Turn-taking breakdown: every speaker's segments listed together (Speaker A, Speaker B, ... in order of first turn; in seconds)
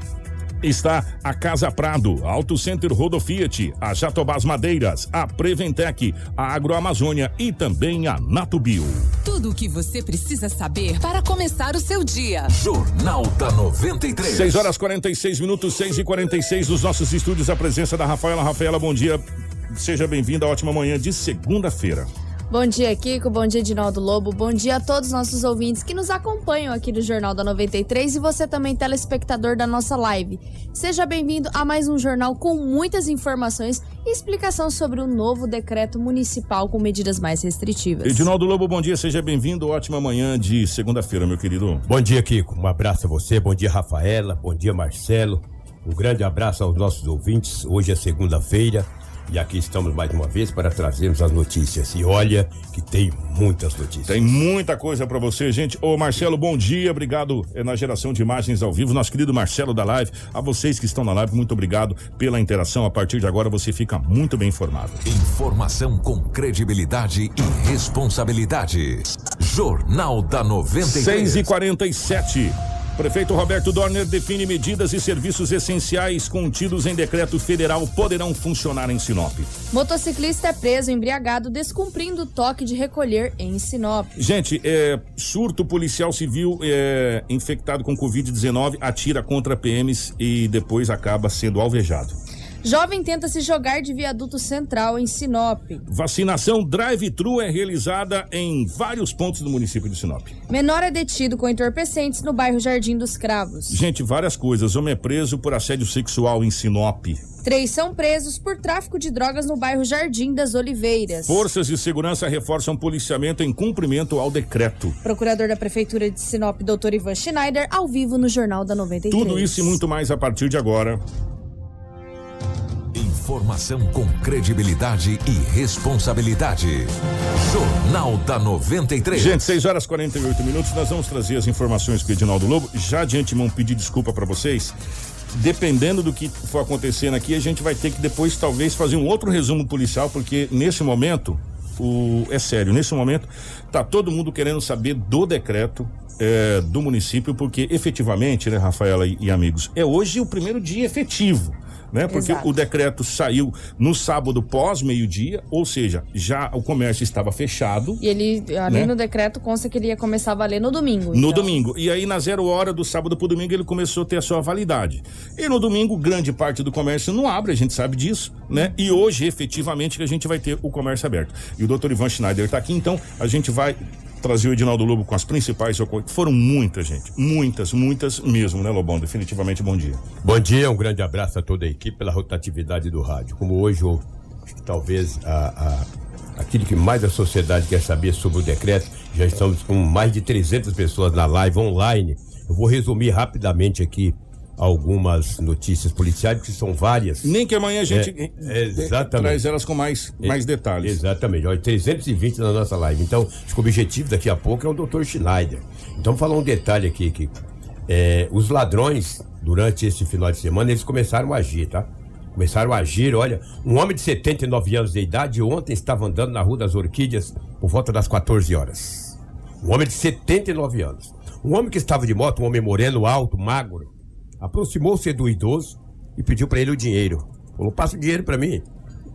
Speaker A: 0.6-9.1, 14.2-22.1, 38.0-41.9, 54.0-65.0, 70.8-79.5, 84.2-92.2, 95.9-100.3, 103.7-107.2, 111.2-115.0, 119.1-121.0, 129.1-134.8, 135.3-158.0, 158.7-158.9, 161.1-180.0, 197.2-201.0
Speaker B: 9.2-12.5
Speaker C: 12.5-14.7, 65.0-71.5, 122.9-129.4
Speaker D: 22.5-38.3, 79.7-84.2, 92.6-95.8, 100.5-103.8, 107.4-111.4, 115.0-119.8, 152.1-152.5, 158.0-161.5
Speaker E: 41.9-54.2, 180.2-197.3, 197.9-199.4, 200.2-228.7